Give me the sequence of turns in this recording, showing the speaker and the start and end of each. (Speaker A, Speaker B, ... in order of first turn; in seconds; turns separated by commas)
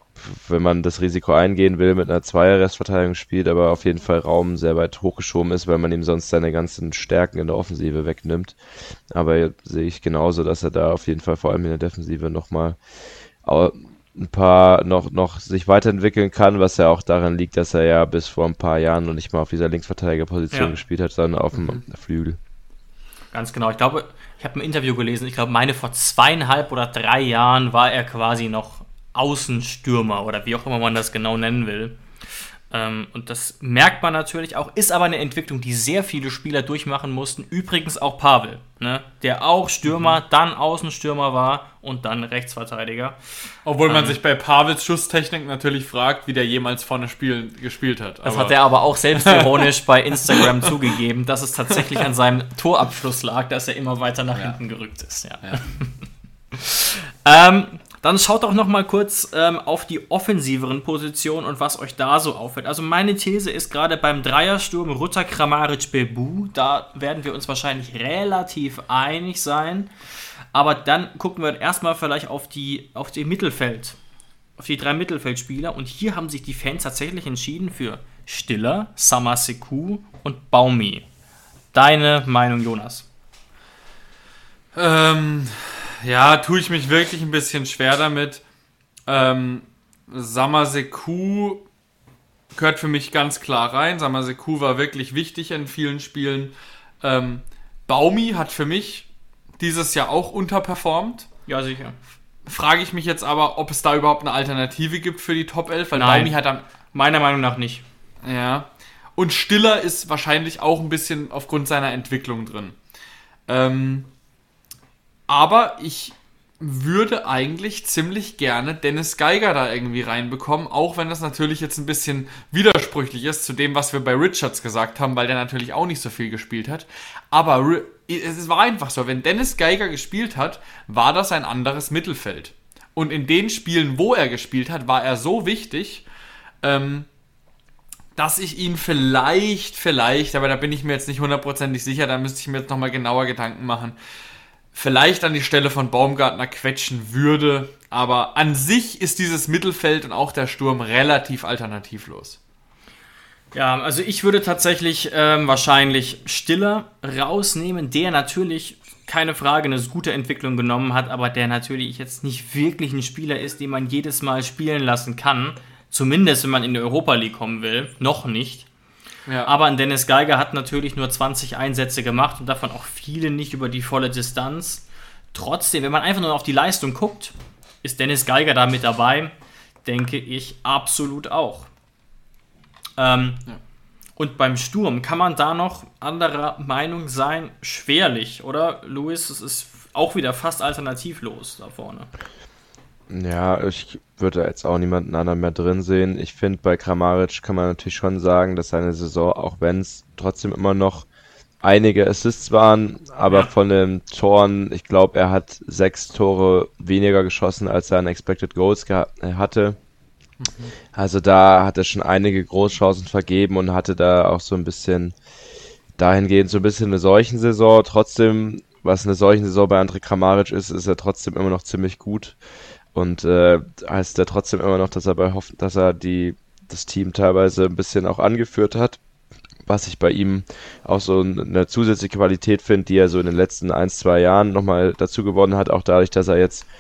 Speaker A: 0.2-8.6, Speaker A: 9.1-12.8, Speaker A: 13.4-22.4, Speaker B: 23.3-32.0, Speaker B: 32.7-43.2, Speaker C: 39.9-40.2, Speaker C: 43.6-48.5, Speaker B: 43.9-44.2, Speaker B: 48.2-55.9, Speaker C: 49.1-49.7, Speaker C: 50.3-50.6, Speaker B: 56.5-69.9, Speaker B: 70.5-74.0, Speaker B: 74.6-81.0, Speaker B: 81.7-83.1, Speaker C: 84.7-88.4, Speaker C: 89.1-91.7, Speaker C: 92.5-99.1, Speaker C: 99.6-101.3, Speaker B: 101.5-102.0, Speaker C: 102.5-106.6, Speaker B: 105.9-106.4, Speaker B: 106.9-107.8, Speaker C: 108.2-112.8, Speaker C: 113.5-114.1, Speaker C: 115.3-136.0, Speaker C: 136.6-137.1, Speaker C: 138.2-143.9, Speaker C: 144.7-152.4, Speaker B: 153.5-168.7, Speaker B: 169.4-179.3, Speaker B: 179.8-181.7, Speaker B: 183.0-183.4, Speaker B: 184.2-192.1, Speaker A: 193.1-201.1, Speaker A: 201.6-209.8, Speaker C: 210.4-210.7, Speaker A: 210.9-215.1, Speaker A: 216.0-222.4, Speaker A: 222.9-229.0, Speaker A: 229.7-236.7